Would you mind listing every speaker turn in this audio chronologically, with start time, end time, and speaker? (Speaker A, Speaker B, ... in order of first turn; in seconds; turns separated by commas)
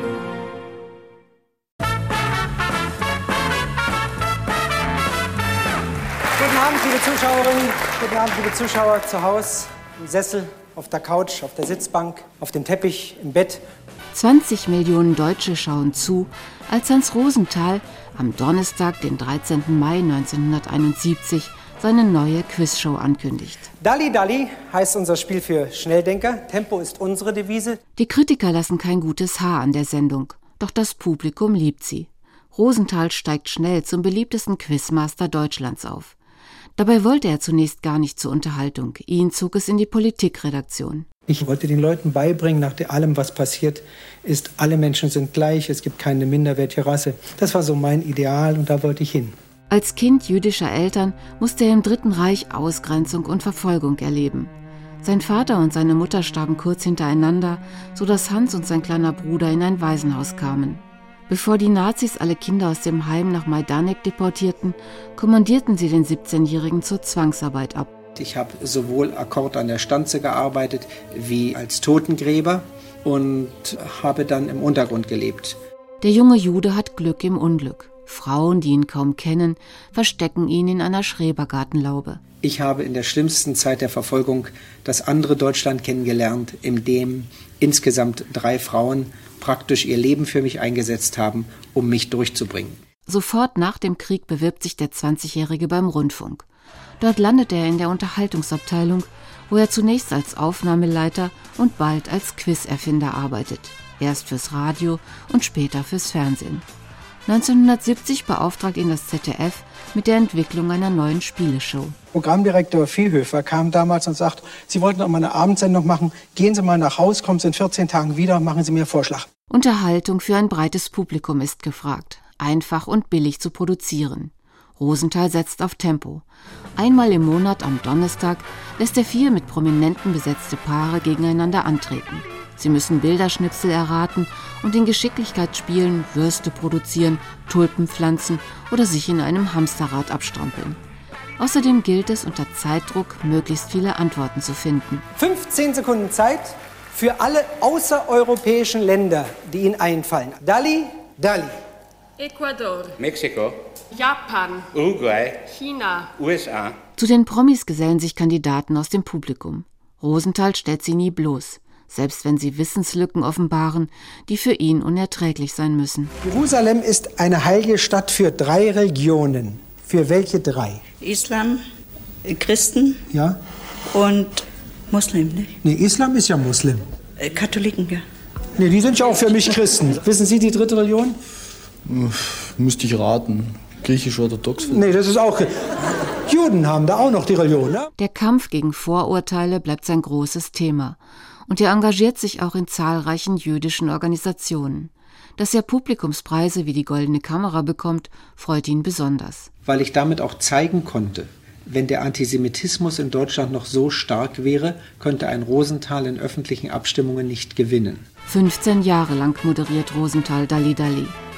Speaker A: 6.4-13.6, Speaker B: 14.1-23.7, Speaker A: 23.8-27.8, Speaker B: 27.9-36.1, Speaker B: 36.8-41.0, Speaker A: 41.3-49.3, Speaker B: 49.7-67.9, Speaker A: 68.2-75.6, Speaker B: 76.0-82.2, Speaker A: 82.4-92.8, Speaker B: 93.0-96.4, Speaker B: 97.0-106.6, Speaker B: 107.2-112.0, Speaker A: 112.1-119.3, Speaker B: 119.5-126.2, Speaker B: 126.8-140.8, Speaker B: 141.4-145.0, Speaker A: 145.2-151.6, Speaker C: 152.2-152.9, Speaker D: 153.0-153.6, Speaker C: 154.0-154.7, Speaker D: 154.7-155.5, Speaker C: 155.5-156.1, Speaker D: 156.2-156.8, Speaker B: 157.0-166.1, Speaker A: 166.2-170.8, Speaker E: 171.0-171.6, Speaker E: 172.2-173.0, Speaker A: 173.1-173.4, Speaker E: 173.9-175.5, Speaker A: 175.6-176.8, Speaker E: 177.2-178.0, Speaker A: 178.6-181.2, Speaker F: 181.8-184.9, Speaker A: 184.7-185.5, Speaker A: 186.2-187.9, Speaker B: 188.0-199.5, Speaker A: 199.6-208.1, Speaker B: 208.2-211.2